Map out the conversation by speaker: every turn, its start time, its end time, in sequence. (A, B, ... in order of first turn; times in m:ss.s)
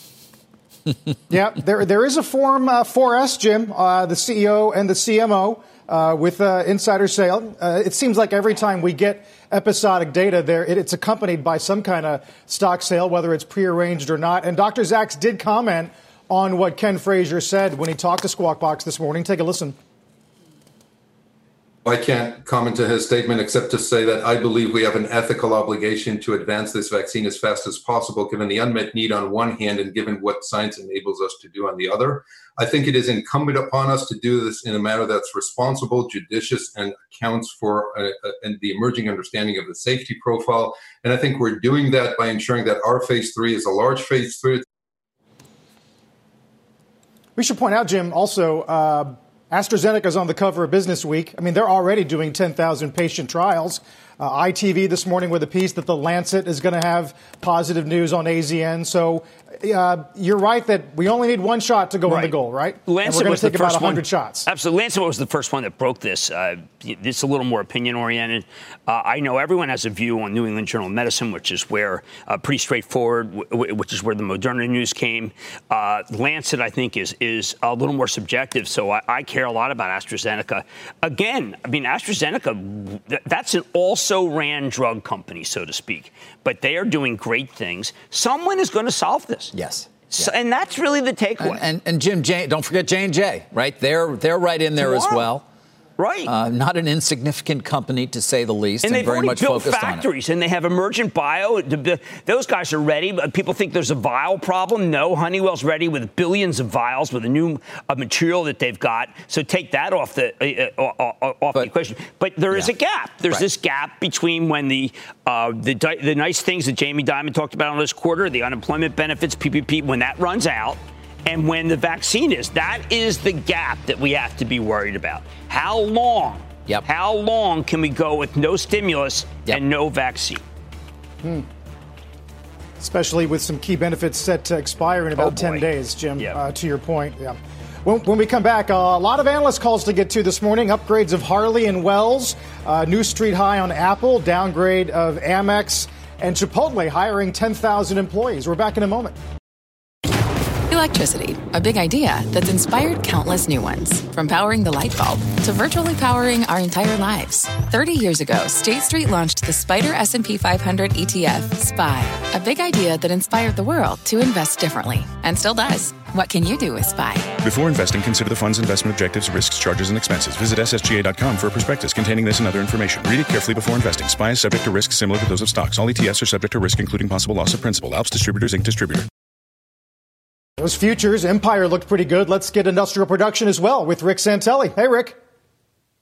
0:01.3-0:19.8 A
0:21.8-0:44.6 B
0:47.4-1:04.5 A
1:02.0-1:02.3 C
1:02.8-1:29.5 C
1:29.5-1:30.3 D
1:30.1-1:31.6 C
1:31.4-1:35.4 D
1:34.8-1:35.3 C
1:36.0-1:36.3 C
1:36.2-1:40.1 D
1:38.8-2:10.4 C
2:12.8-2:29.1 A
2:15.2-2:15.7 C
2:30.7-2:47.4 E
2:47.4-2:59.0 F
3:00.6-3:05.2 A